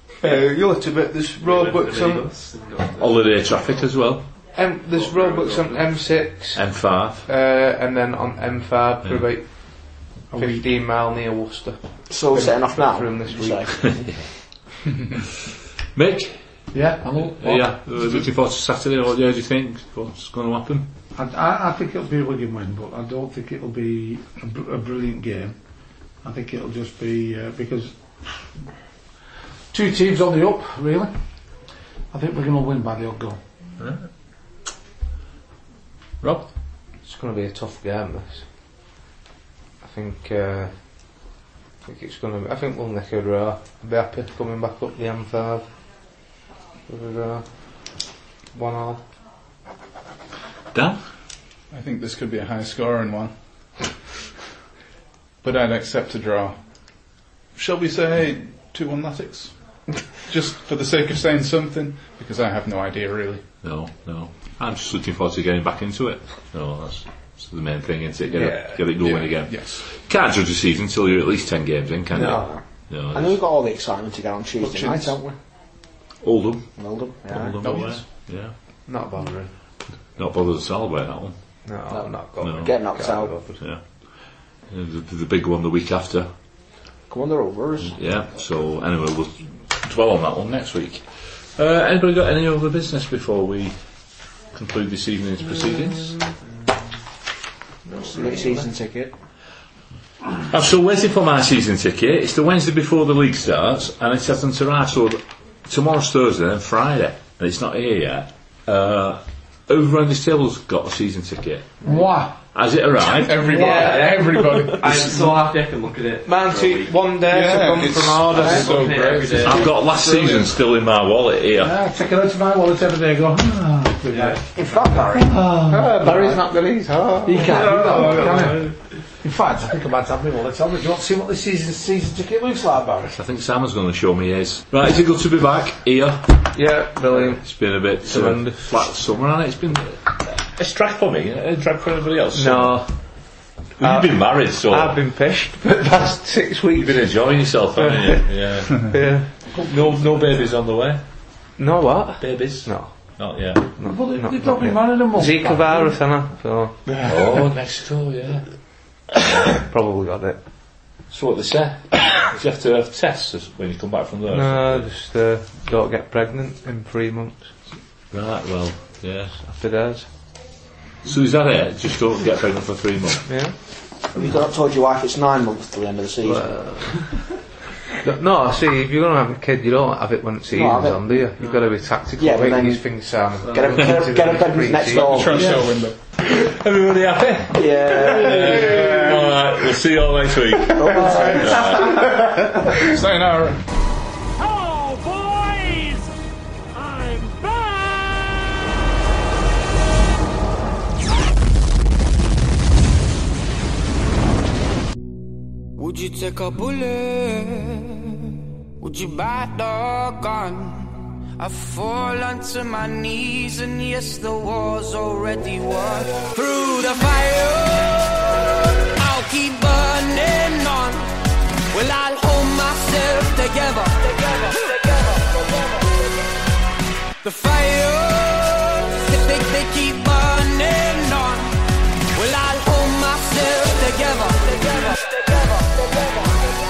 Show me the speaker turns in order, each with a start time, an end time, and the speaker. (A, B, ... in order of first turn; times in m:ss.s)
0:00.2-0:02.2 A
0:01.4-0:03.9 B
0:03.0-0:04.3 C
0:04.5-0:13.9 A
0:04.9-0:05.8 B
0:06.6-0:07.3 C
0:10.3-0:10.6 D
0:12.1-0:14.3 E
0:15.9-0:20.9 C
0:16.7-0:17.8 D
0:21.2-0:25.6 D
0:26.2-0:28.5 D
0:29.7-0:31.2 D
0:32.1-0:33.4 D
0:33.8-0:34.1 C
0:36.2-0:36.5 C
0:37.0-0:38.5 A
0:39.8-0:41.3 A
0:41.8-0:46.2 A
0:46.9-0:49.0 A
0:50.7-0:51.0 C
0:51.7-0:53.3 F
0:55.4-0:56.6 F
0:57.6-1:03.5 F
1:03.6-1:13.4 C
1:08.3-1:08.8 A
1:09.0-1:09.8 F
1:12.1-1:15.4 E
1:12.2-1:12.5 A
1:14.6-1:15.1 F
1:16.2-1:16.7 C
1:16.8-1:18.0 E
1:17.3-1:18.5 C
1:17.6-1:18.0 F
1:18.9-1:19.5 A
1:20.1-1:21.4 C
1:21.6-1:23.6 A
1:21.9-1:23.5 E
1:22.4-1:22.7 C
1:23.6-1:26.3 C
1:27.1-1:28.0 E
1:27.8-1:33.8 C
1:34.5-1:36.3 C
1:37.9-1:38.7 A
1:38.0-1:39.1 E
1:40.5-1:51.9 C
1:51.8-1:52.4 D
1:52.5-1:53.6 C
1:53.1-1:55.3 F
1:53.4-1:54.2 D
1:53.6-1:54.2 A
1:53.6-1:57.0 B
1:56.3-1:59.4 A
1:57.3-1:59.8 F
1:58.3-2:00.3 B
1:59.4-2:01.8 C
2:01.6-2:06.4 D
2:04.1-2:04.9 B
2:05.3-2:05.9 C
2:05.7-2:08.2 A
2:07.2-2:13.2 D
2:07.4-2:08.9 B
2:13.1-2:16.5 C
2:16.5-2:18.6 A
2:17.1-2:22.8 C
2:22.3-2:29.3 A
2:23.8-2:25.0 C
2:26.7-2:31.0 C
2:29.6-2:30.0 D
2:31.6-2:36.8 A
2:32.2-2:33.7 C
2:33.8-2:36.0 D
2:37.0-2:38.5 C
2:39.5-2:40.4 A
2:41.1-2:44.9 C
2:44.3-2:47.6 A
2:48.1-2:49.4 C
2:49.3-2:50.1 A
2:51.0-2:53.3 C
2:53.3-2:53.6 A
2:54.1-2:56.5 E
2:56.2-2:57.2 A
2:58.0-3:05.5 A
3:00.5-3:01.2 E
3:01.4-3:01.8 B
3:02.2-3:05.6 E
3:03.4-3:03.9 B
3:04.9-3:06.0 F
3:06.2-3:12.1 C
3:07.5-3:09.1 E
3:08.4-3:09.2 F
3:10.6-3:12.5 E
3:10.8-3:11.4 F
3:12.7-3:13.6 F
3:25.8-3:41.1 G
3:41.7-3:46.0 G
3:47.2-3:56.3 G